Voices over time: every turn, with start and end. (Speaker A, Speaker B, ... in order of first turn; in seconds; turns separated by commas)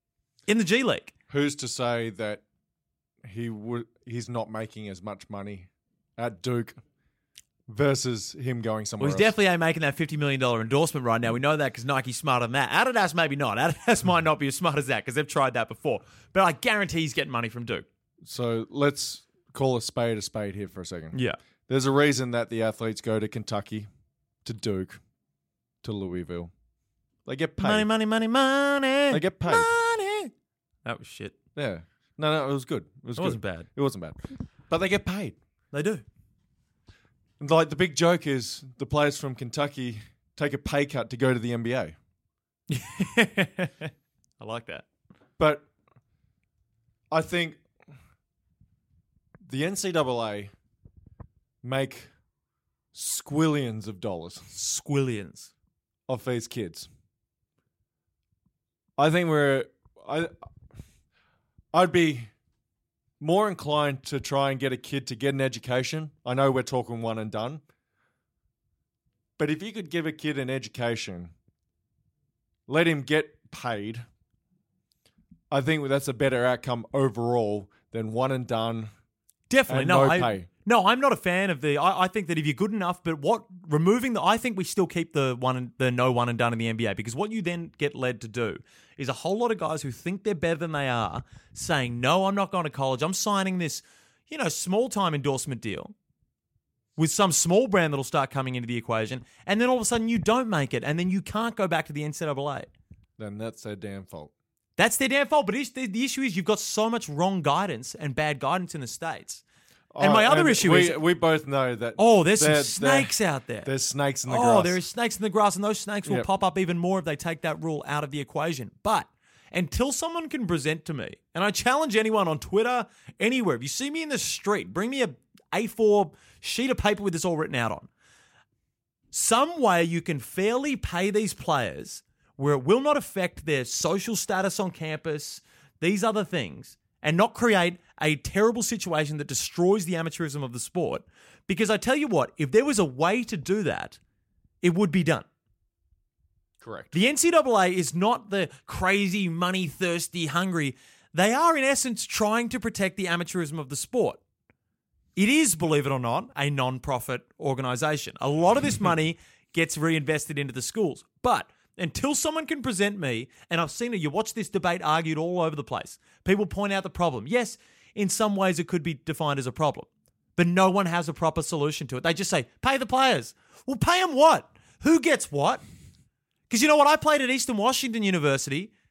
Speaker A: 0.5-1.1, Speaker B: 1.3-2.4, Speaker B: 3.2-6.8, Speaker B: 7.7-9.3, Speaker A: 9.0-17.9, Speaker B: 18.2-21.1, Speaker A: 21.1-21.4, Speaker B: 21.7-23.9, Speaker B: 24.4-25.0, Speaker B: 25.8-26.5, Speaker B: 27.2-27.9, Speaker A: 27.6-30.3, Speaker B: 29.1-29.7, Speaker A: 30.8-31.3, Speaker B: 31.6-35.4, Speaker A: 33.1-33.7, Speaker A: 35.7-36.0, Speaker B: 37.4-41.9, Speaker A: 42.7-44.9, Speaker B: 45.4-45.7, Speaker B: 47.1-47.6, Speaker B: 49.4-50.5, Speaker B: 51.6-52.1, Speaker B: 52.9-54.5, Speaker A: 54.5-55.5, Speaker B: 56.1-56.9, Speaker B: 59.0-60.3, Speaker B: 61.7-62.3, Speaker B: 63.2-67.6, Speaker B: 69.4-71.3, Speaker B: 72.7-74.0, Speaker B: 75.5-78.9, Speaker A: 79.5-95.9, Speaker B: 79.7-80.5, Speaker A: 97.0-102.7, Speaker B: 103.2-104.3, Speaker A: 104.8-109.4, Speaker B: 109.9-113.1, Speaker A: 110.0-111.0, Speaker A: 112.0-113.7, Speaker B: 113.6-114.8, Speaker A: 114.3-127.9, Speaker A: 129.1-144.0, Speaker A: 144.6-145.2, Speaker B: 146.6-146.9, Speaker A: 146.9-154.2, Speaker A: 155.2-175.6, Speaker A: 176.5-178.7